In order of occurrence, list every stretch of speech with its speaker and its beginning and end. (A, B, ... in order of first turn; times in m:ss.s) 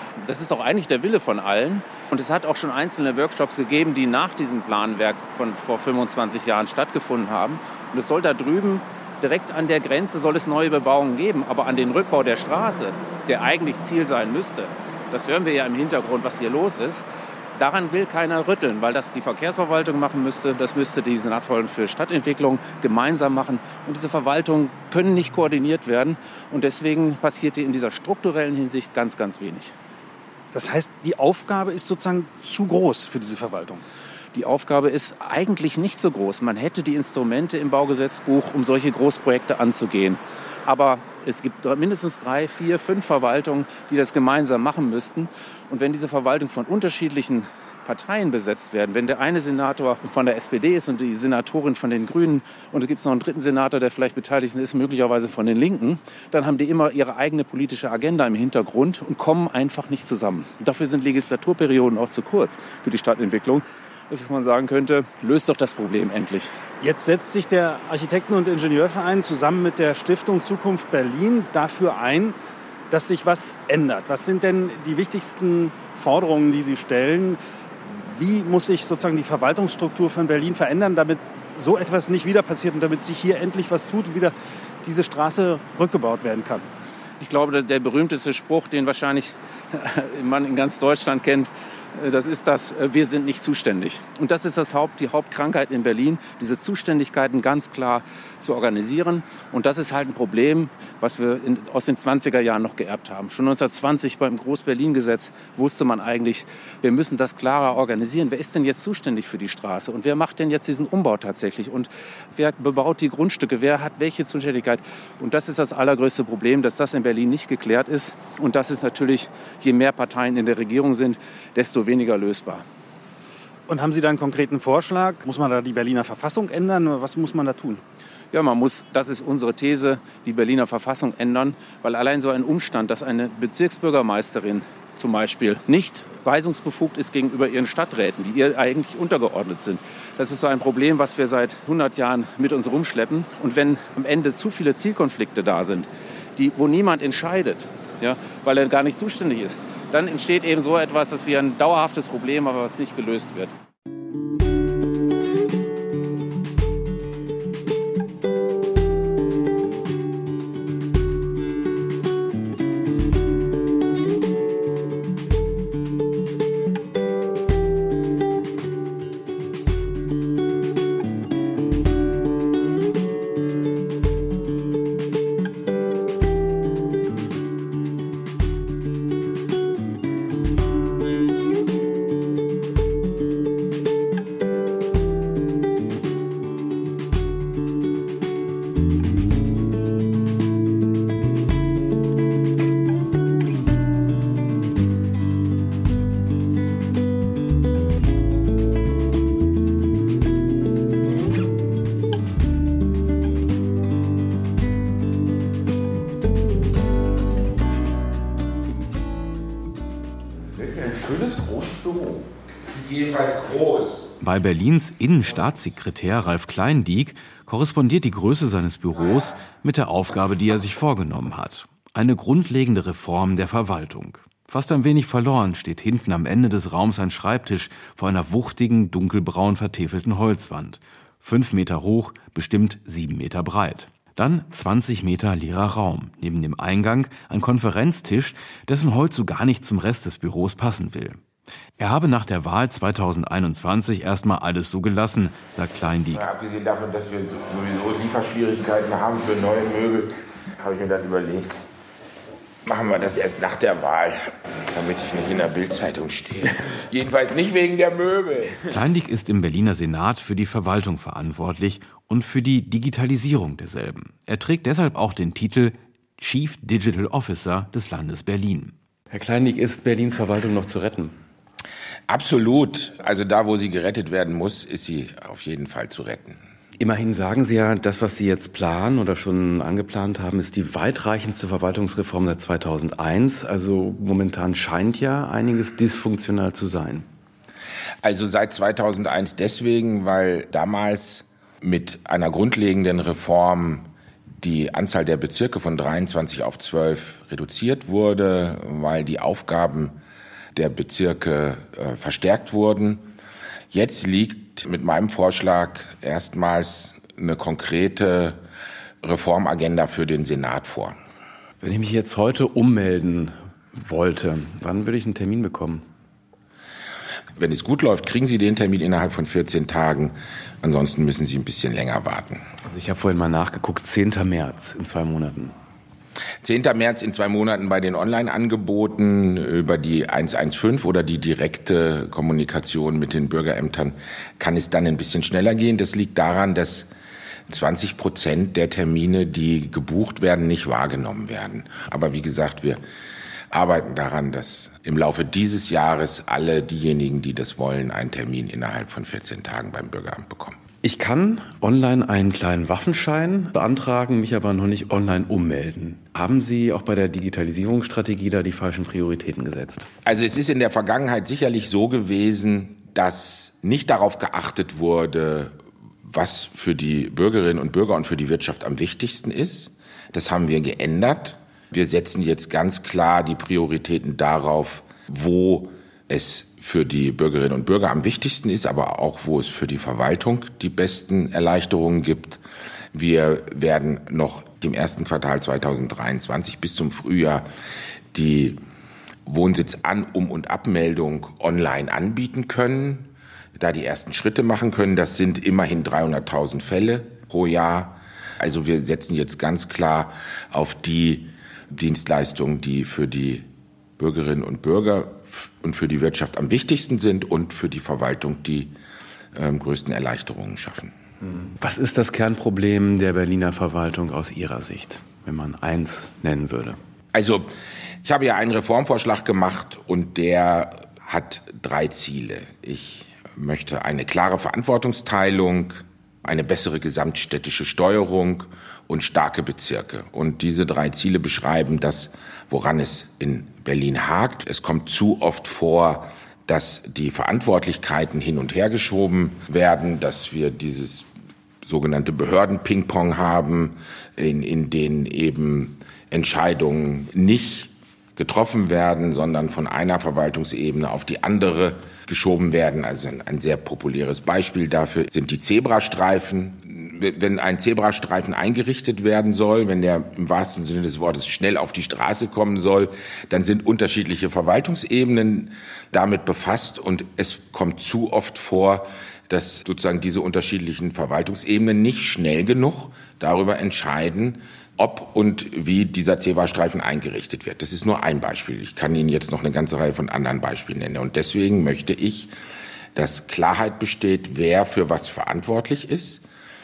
0:00.2-0:29.7 A
0:30.5-0:33.8 B
0:34.3-1:06.5 A
1:06.8-1:12.4 B
1:12.9-1:26.6 B
1:27.2-2:02.6 A
2:03.7-2:07.8 B
2:08.3-2:33.5 A
3:30.4-3:32.2 C
3:32.6-3:34.1 D
3:34.2-4:01.2 E
4:01.8-4:06.2 E
4:06.1-4:11.5 D
4:12.6-4:18.6 D
4:18.6-4:28.7 E
4:29.1-4:31.1 C
4:32.1-4:36.4 D
4:36.8-4:47.0 C
4:48.0-4:53.9 D
4:54.4-5:00.0 D
5:00.5-5:03.0 D
5:03.7-5:08.4 D
5:09.0-5:11.0 D
5:11.6-5:15.8 C
5:17.4-5:22.4 D
5:22.6-5:25.5 C
5:26.4-5:36.9 D
5:37.5-5:42.8 D
5:43.5-5:50.6 D
5:50.8-5:59.9 C
6:00.0-6:22.4 D
6:22.9-6:27.5 D
6:28.1-6:28.6 D
6:29.2-6:43.4 D
6:44.0-6:48.7 D
6:49.3-6:50.9 D
6:51.2-6:56.8 C
6:57.1-6:57.5 D
6:58.0-7:21.1 D
7:21.6-8:02.3 D
8:02.9-8:06.2 D